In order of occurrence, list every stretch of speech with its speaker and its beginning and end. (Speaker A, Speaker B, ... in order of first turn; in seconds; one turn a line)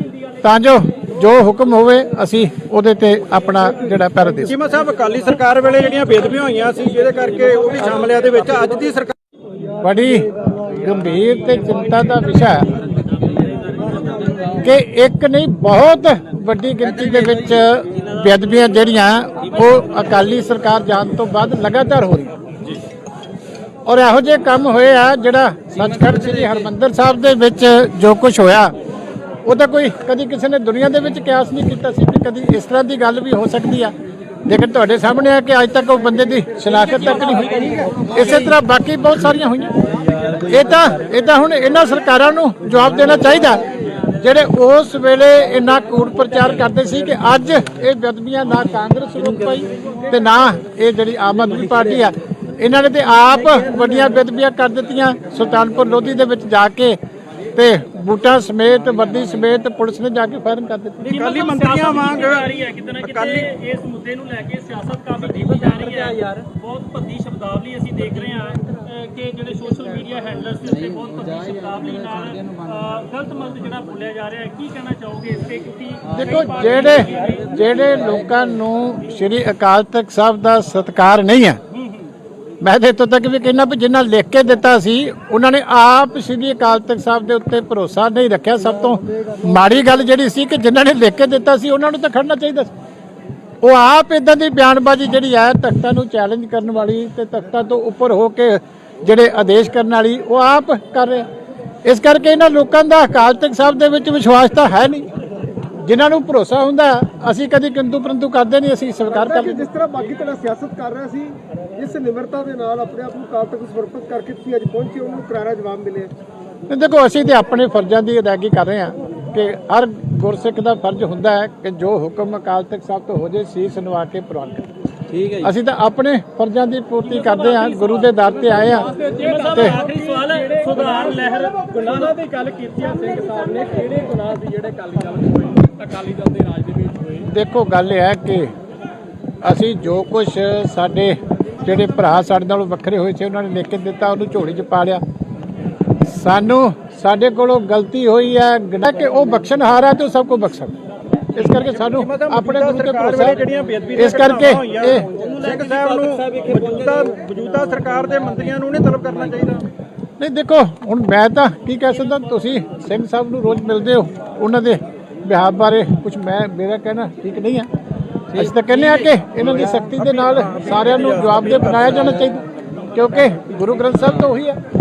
Speaker A: 0.4-4.5
Speaker B: 4.5-9.1
Speaker A: 9.8-12.7
Speaker A: 14.5-22.4
Speaker A: 23.9-28.8
Speaker A: 29.4-33.9
Speaker A: 34.5-57.0
Speaker C: 36.8-37.9
Speaker A: 57.5-61.1
Speaker B: 61.0-63.5
Speaker C: 61.1-77.6
Speaker A: 76.1-81.6
Speaker C: 81.7-82.1
Speaker A: 82.6-92.7
Speaker A: 93.6-101.3
Speaker A: 101.8-105.1
Speaker A: 105.8-109.6
Speaker D: 109.1-116.1
Speaker A: 116.7-124.7
Speaker A: 125.3-129.8
Speaker C: 127.1-133.2
Speaker E: 132.3-137.1
Speaker D: 133.3-134.0
Speaker C: 135.0-136.8
Speaker A: 137.2-138.5
Speaker A: 139.4-145.0
Speaker A: 146.0-150.8
Speaker A: 151.3-153.4
Speaker B: 151.6-159.7
Speaker A: 153.9-155.1
Speaker C: 155.1-157.4
Speaker A: 160.2-167.7
Speaker A: 168.3-174.6
Speaker B: 168.5-169.2
Speaker B: 169.9-172.0